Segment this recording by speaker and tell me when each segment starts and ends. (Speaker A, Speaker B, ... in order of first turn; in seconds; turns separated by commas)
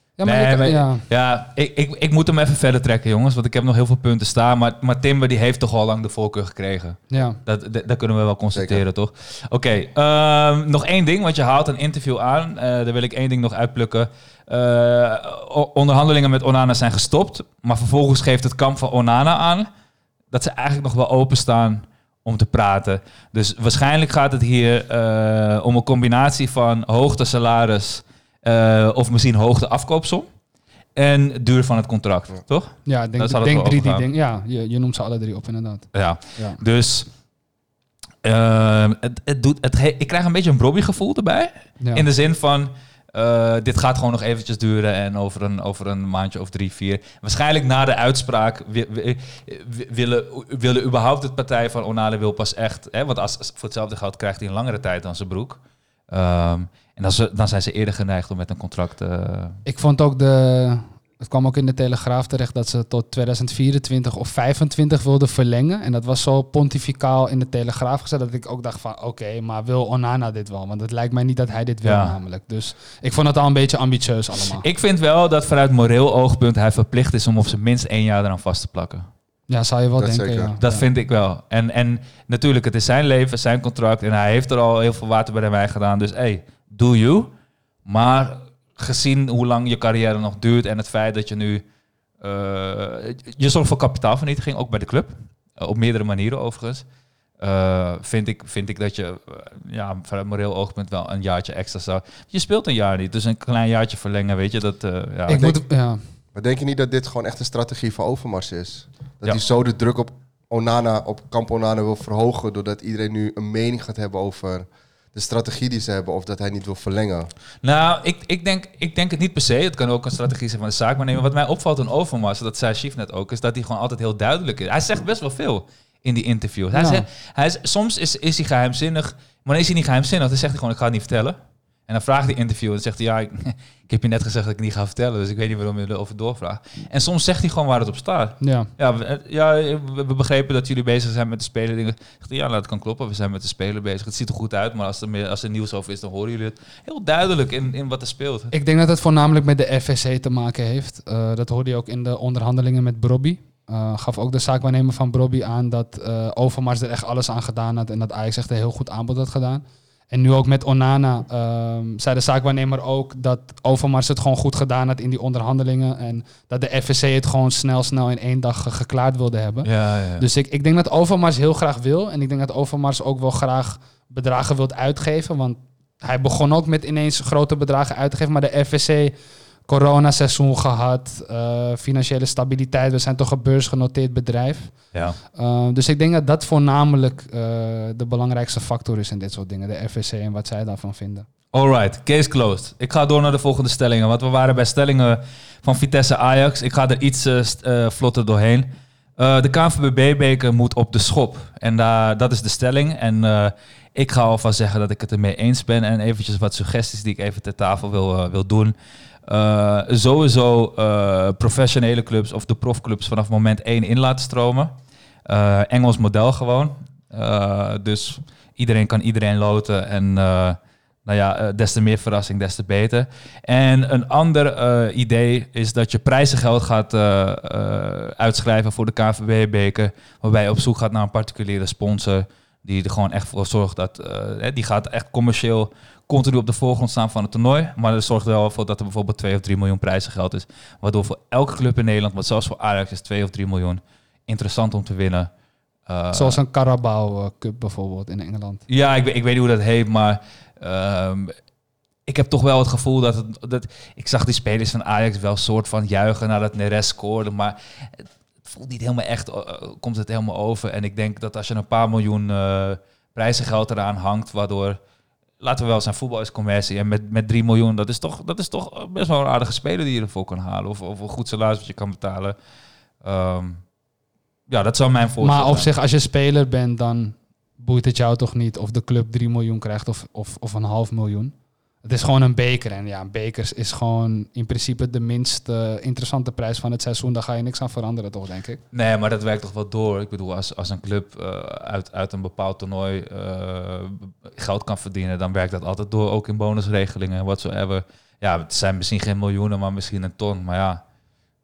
Speaker A: 0.2-1.0, Speaker B: 0.2-19.7, Speaker A: 7.1-7.4, Speaker C: 8.5-8.8, Speaker B: 20.3-30.3, Speaker B: 31.0-34.0, Speaker A: 32.9-36.6, Speaker B: 35.9-37.1, Speaker B: 38.2-59.6, Speaker A: 41.8-42.1, Speaker A: 59.7-74.7, Speaker B: 71.8-72.2, Speaker B: 74.5-79.1, Speaker A: 79.5-80.8, Speaker C: 80.0-80.5, Speaker B: 80.6-87.3, Speaker B: 87.8-91.6, Speaker B: 92.2-96.9, Speaker B: 97.4-105.5, Speaker A: 105.3-106.0, Speaker C: 105.3-105.6, Speaker C: 106.3-117.3, Speaker B: 117.6-148.5, Speaker A: 126.7-127.0, Speaker A: 138.4-138.7, Speaker A: 148.5-179.1, Speaker B: 169.6-170.2, Speaker A: 179.7-191.3, Speaker B: 191.5-208.7, Speaker B: 209.3-214.7, Speaker B: 215.3-245.3, Speaker B: 245.9-246.4, Speaker A: 246.1-248.6, Speaker B: 248.7-251.3, Speaker B: 252.1-264.8, Speaker B: 265.4-272.4, Speaker B: 273.0-273.6, Speaker B: 274.5-275.7, Speaker A: 275.2-288.6, Speaker B: 288.7-300.8